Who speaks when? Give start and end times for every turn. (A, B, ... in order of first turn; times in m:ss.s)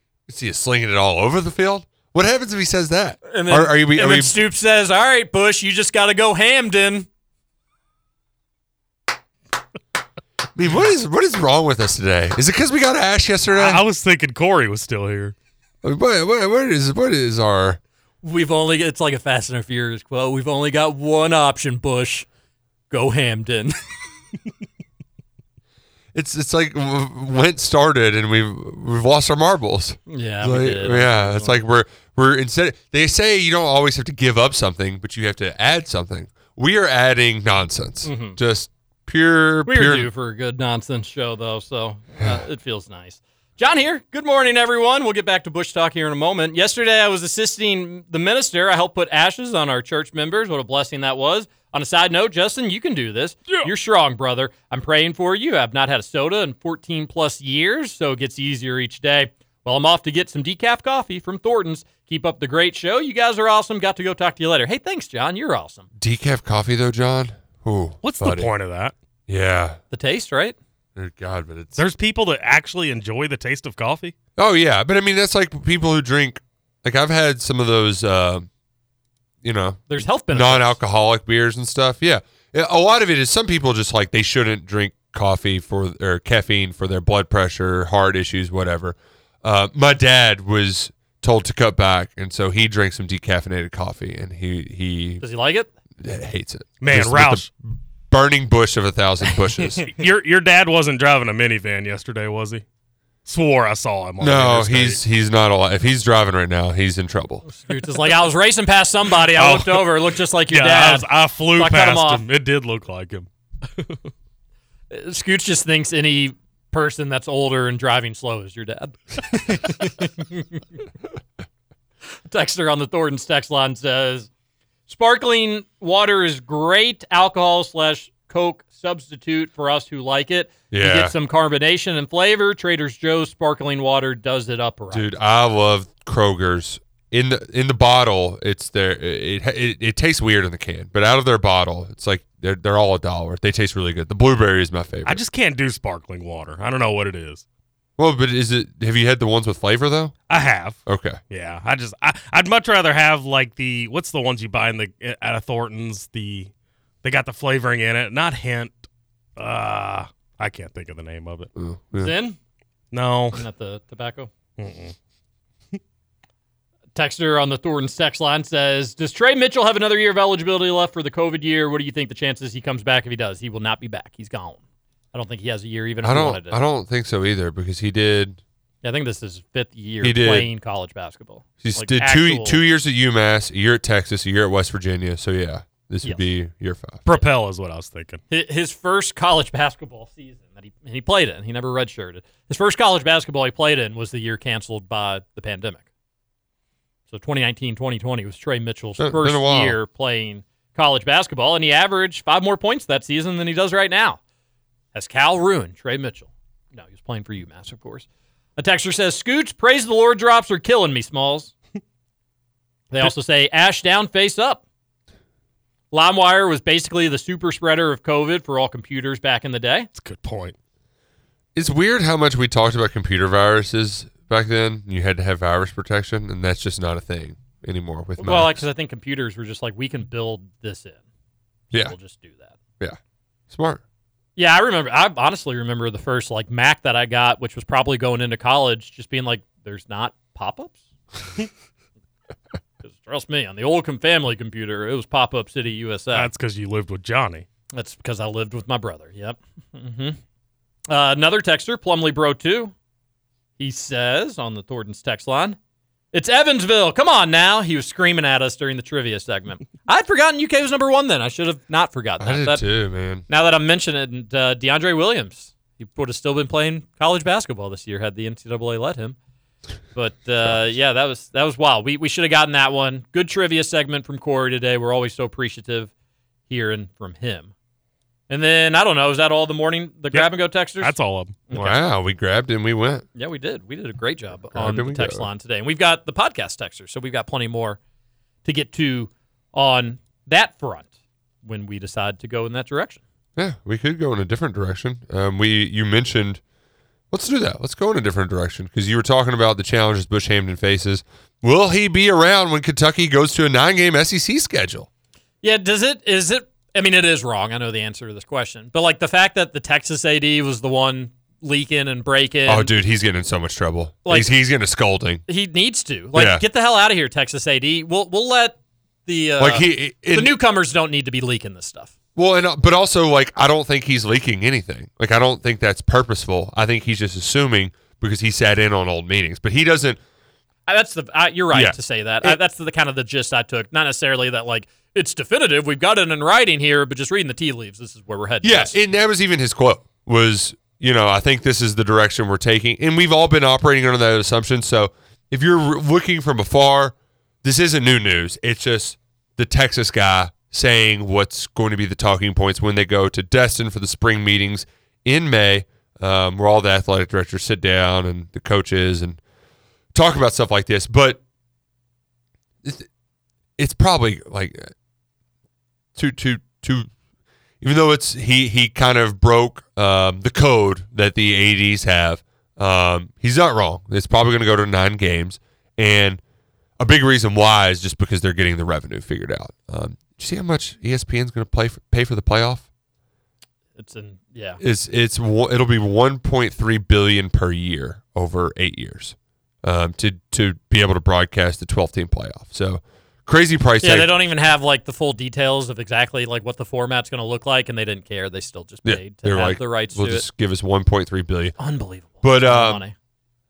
0:00.3-0:04.4 A
0:03.3-0:07.1 B
0:10.6-0:13.8 A
0:13.5-0:15.3 C
0:15.8-0:17.8 A
0:18.2-0:22.3 B
0:22.9-0:23.8 B
0:26.1-0:40.1 A
0:30.1-0:31.6 B
0:38.0-0:38.4 B
0:39.6-1:05.9 B
1:06.0-1:08.5 A
1:08.0-1:08.9 C
1:09.3-1:09.8 A
1:09.9-1:10.6 B
1:11.0-1:11.9 A
1:11.8-1:14.1 C
1:14.4-1:18.5 A
1:19.4-1:35.2 A
1:19.9-1:20.8 B
1:35.2-1:35.7 B
1:36.0-1:39.9 A
1:36.8-1:37.5 C
1:39.8-1:42.6 C
1:43.3-1:45.0 C
1:44.2-1:47.4 A
1:47.5-1:52.2 B
1:49.3-1:53.3 C
1:54.9-2:00.6 B
2:02.3-2:04.3 B
2:04.9-2:15.1 B
2:10.7-2:11.1 A
2:14.9-2:25.2 A
2:25.0-2:27.4 C
2:28.0-2:30.1 A
2:30.3-2:36.5 C
2:30.9-2:31.2 A
2:37.0-2:38.8 C
2:39.4-2:41.5 C
2:41.6-2:42.1 A
2:42.0-2:42.4 B
2:42.9-2:43.4 C
2:43.3-2:44.3 B
2:44.6-2:44.9 C
2:46.9-2:54.6 B
2:55.1-2:56.6 B
2:56.0-2:58.4 A
2:58.8-3:02.6 B
3:00.0-3:00.5 A
3:01.6-3:07.0 A
3:07.0-3:08.2 C
3:08.3-3:15.8 B
3:17.1-3:24.2 B
3:19.0-3:19.8 A
3:24.9-3:28.0 B
3:28.6-3:31.5 B
3:32.9-3:34.6 B
3:35.9-3:39.9 B
3:39.9-3:40.6 C
3:41.6-3:48.6 A
3:48.2-3:51.0 B
3:51.7-3:52.6 B
3:53.5-3:53.8 A
3:54.4-4:00.8 B
4:02.8-4:06.3 B
4:06.1-4:07.4 C
4:07.7-4:10.2 B
4:10.9-4:12.7 B
4:13.6-4:15.6 B
4:16.1-4:22.6 B
4:22.2-4:23.2 A
4:23.3-4:29.2 B
4:29.9-4:35.9 B
4:30.4-4:30.7 A
4:36.5-4:37.5 B
4:38.3-4:40.9 B
4:40.1-4:41.4 C
4:41.5-4:41.8 B
4:41.5-4:43.0 A
4:43.2-4:47.8 B
4:44.5-4:45.3 A
4:48.4-4:50.9 B
4:51.4-4:53.0 B
4:53.4-4:56.4 A
4:57.1-5:04.9 A
5:05.4-5:12.7 B
5:12.4-5:15.2 A
5:14.0-5:14.3 B
5:15.3-5:21.9 B
5:16.1-5:16.4 A
5:19.4-5:20.3 A
5:22.1-5:30.0 A
5:30.7-5:38.8 B
5:31.5-5:32.4 A
5:38.4-5:59.2 A
5:59.9-6:01.2 A
6:02.6-6:02.9 A
6:03.6-6:04.7 A
6:05.9-6:06.9 A
6:07.6-6:16.2 A
6:16.8-6:22.6 A
6:23.8-6:24.6 B
6:24.6-6:34.1 A
6:33.8-6:40.3 B
6:38.8-6:41.6 A
6:41.6-6:42.9 B
6:42.2-6:42.8 A